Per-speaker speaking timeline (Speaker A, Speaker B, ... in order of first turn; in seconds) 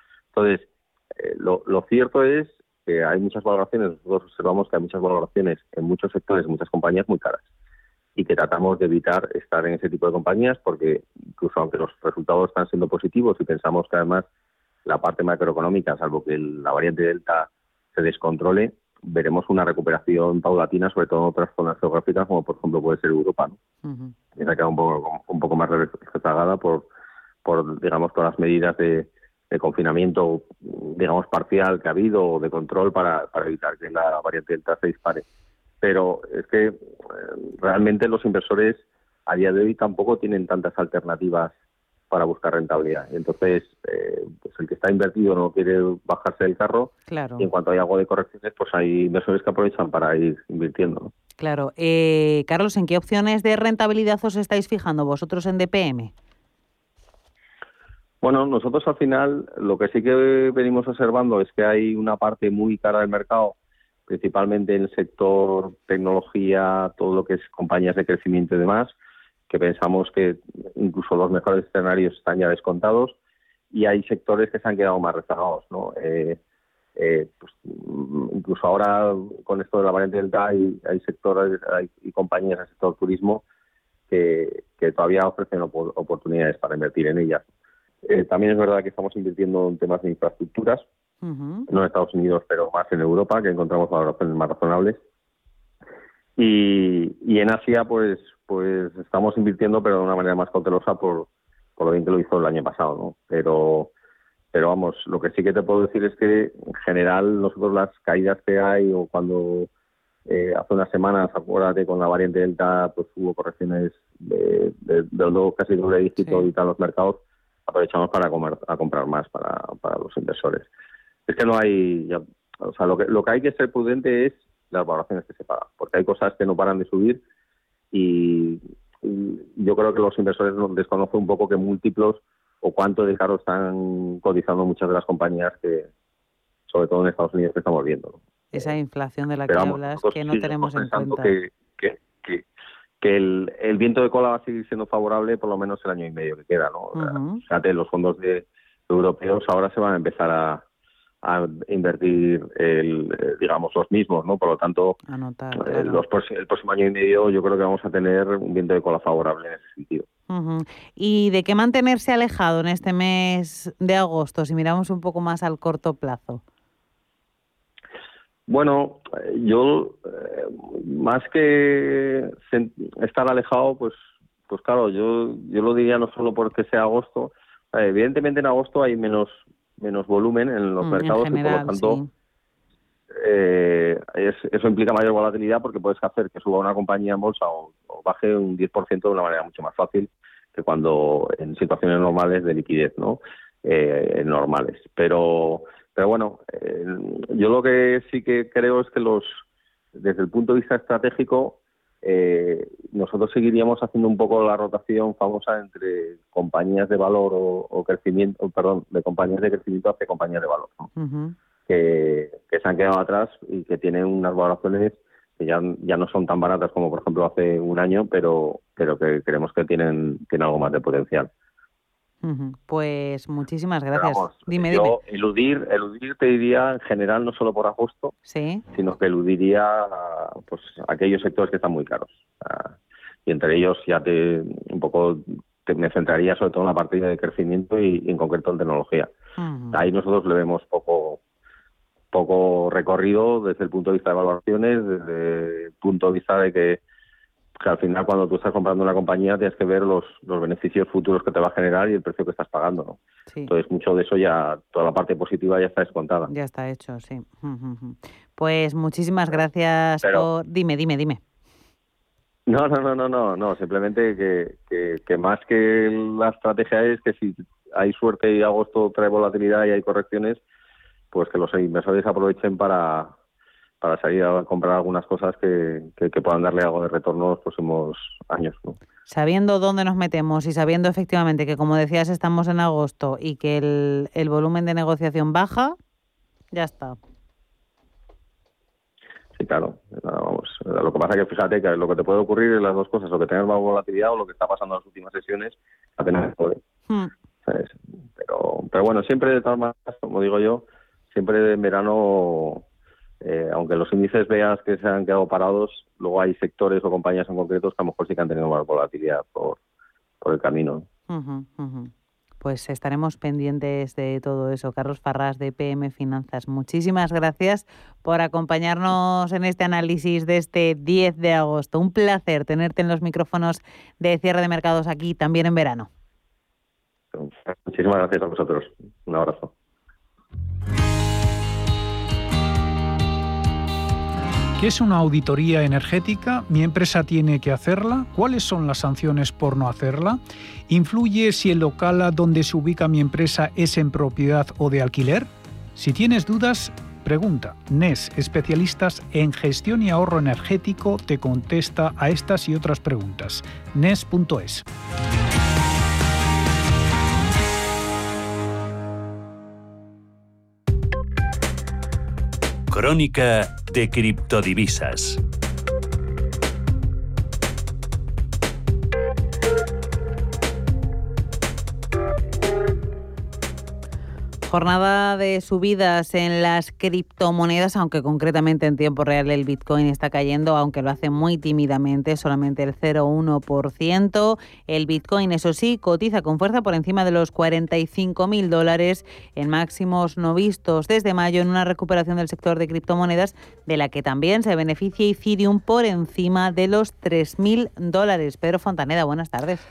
Speaker A: 0.3-7.4, 8.2-14.3, 14.8-23.6, 24.3-26.9, 27.4-35.2, 35.8-41.5, 42.1-51.1, 58.2-63.5, 64.1-68.9, 69.5-73.2, 73.7-76.4, 77.0-83.4, 84.1-87.5, 88.0-90.8, 91.7-95.0, 96.4-103.9, 104.5-109.7, 110.3-120.7, 121.3-127.2, 127.9-135.9, 136.7-138.7, 139.5-142.4, 143.0-150.6, 151.2-154.9, 155.5-160.1, 168.5-182.0, 183.1-199.4, 199.9-210.9, 211.7-221.3, 223.9-228.1, 228.7-239.1, 239.7-241.2, 242.1-246.8, 247.6-256.3, 260.0-260.3, 262.5-270.4, 271.1-273.1, 273.8-278.8, 289.4-296.6, 297.4-302.6, 303.2-309.6, 310.2-310.9, 327.1-329.5
Speaker B: 23.8-24.1, 47.1-47.5, 51.4-56.1, 91.2-91.7, 116.2-116.5, 138.5-141.3, 146.9-147.4, 155.1-156.0, 160.3-166.4, 180.8-182.1, 210.9-211.3, 222.2-225.0, 228.2-228.6, 239.4-239.8, 256.3-261.2, 279.1-285.7, 286.5-287.0, 311.1-311.9, 312.4-325.9, 374.5-399.6
Speaker C: 334.6-354.6
Speaker D: 362.7-365.2